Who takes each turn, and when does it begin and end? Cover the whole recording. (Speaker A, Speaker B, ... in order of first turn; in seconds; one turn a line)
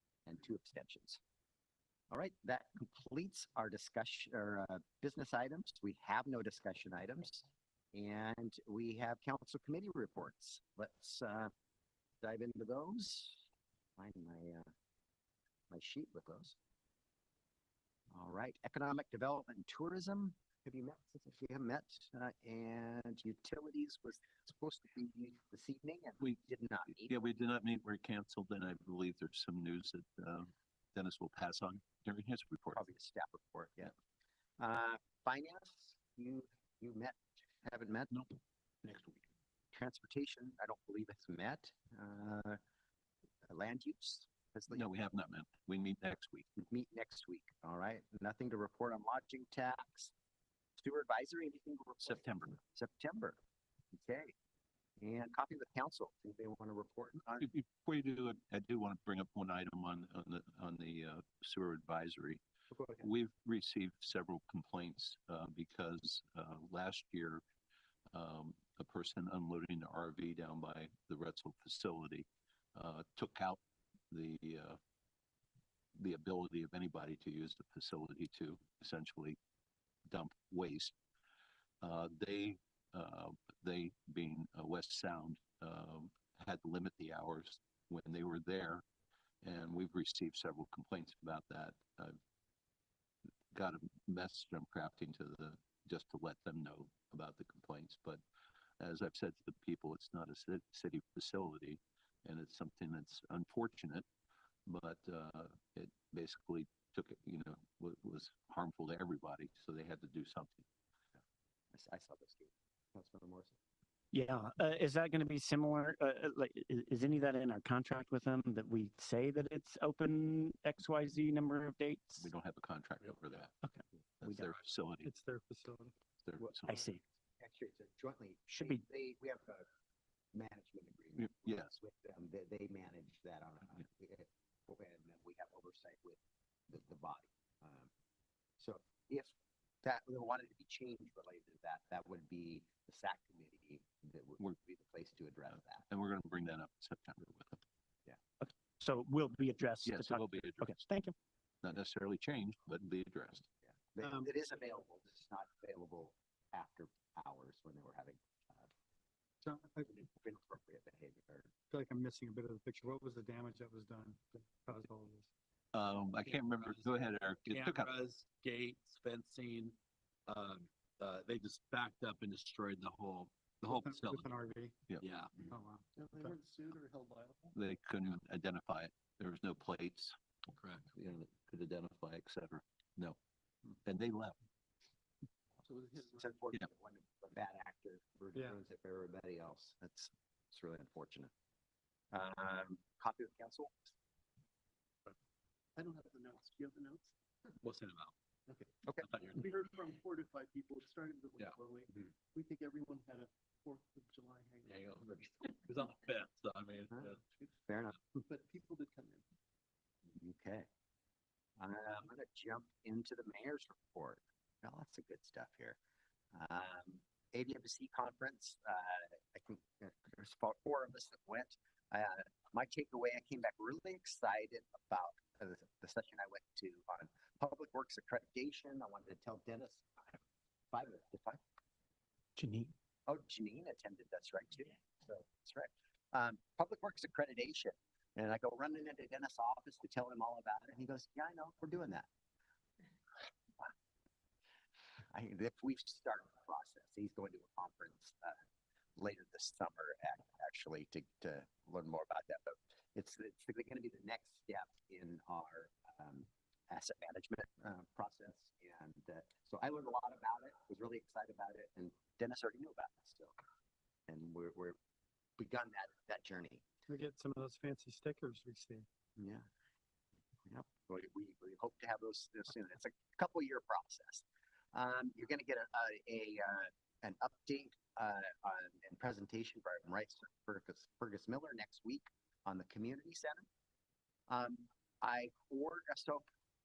Speaker A: 0.3-1.2
Speaker A: 2.1-11.5
Speaker A: 12.2-13.4
Speaker A: 14.0-14.7
Speaker A: 15.7-16.6
Speaker A: 18.1-27.2
Speaker B: 27.0-32.8
Speaker A: 32.7-33.9
Speaker A: 34.6-38.2
Speaker A: 38.9-39.1
Speaker A: 39.7-42.6
Speaker A: 43.5-44.9
Speaker B: 44.7-46.5
Speaker A: 46.6-50.1
Speaker A: 50.8-53.4
Speaker B: 52.0-52.6
Speaker A: 53.9-54.3
Speaker A: 55.0-57.5
Speaker B: 57.4-62.4
Speaker A: 62.7-63.1
Speaker B: 63.0-67.4
Speaker B: 68.1-74.8
Speaker B: 76.0-79.4
Speaker B: 80.1-80.9
Speaker B: 81.8-88.8
Speaker B: 89.4-92.2
Speaker B: 93.5-98.2
Speaker B: 98.8-104.1
Speaker B: 104.7-110.7
Speaker A: 111.7-113.6
Speaker C: 114.1-122.3
Speaker B: 122.2-123.5
Speaker C: 123.6-124.5
Speaker B: 124.2-125.1
Speaker D: 125.0-125.9
Speaker B: 126.2-126.8
Speaker A: 126.4-126.8
Speaker C: 126.7-127.0
Speaker A: 127.4-129.7
Speaker C: 128.5-128.8
Speaker A: 130.3-136.2
Speaker B: 131.2-131.7
Speaker A: 136.7-137.9
Speaker A: 138.6-145.9
Speaker B: 145.9-147.6
Speaker C: 148.4-151.2
Speaker B: 149.8-150.8
Speaker B: 151.6-153.5
Speaker A: 153.7-158.7
Speaker D: 154.0-154.3
Speaker D: 159.4-159.9
Speaker A: 159.9-161.5
Speaker D: 161.7-165.3
Speaker B: 165.7-167.9
Speaker E: 166.3-174.3
Speaker D: 173.7-174.8
Speaker E: 175.0-175.4
Speaker D: 175.4-176.4
Speaker F: 176.0-177.5
Speaker B: 177.6-180.1
Speaker E: 180.5-180.9
Speaker B: 180.9-183.2
Speaker B: 183.8-184.4
Speaker F: 185.7-186.0
Speaker A: 186.0-191.3
Speaker A: 192.1-193.9
Speaker F: 195.8-197.1
Speaker E: 197.6-198.1
Speaker E: 199.0-199.4
Speaker F: 199.9-204.6
Speaker E: 204.6-207.2
Speaker A: 206.9-207.2
Speaker A: 207.7-208.0
Speaker F: 208.3-209.2
Speaker A: 210.1-210.7
Speaker A: 211.6-215.8
Speaker A: 216.3-230.2
Speaker A: 230.7-231.4
Speaker C: 232.4-232.7
Speaker A: 233.1-242.1
Speaker A: 245.1-248.4
Speaker A: 249.0-263.4
Speaker A: 264.1-264.8
Speaker A: 265.4-266.6
Speaker D: 266.9-268.9
Speaker A: 269.2-269.4
Speaker A: 270.5-283.5
Speaker A: 284.3-286.2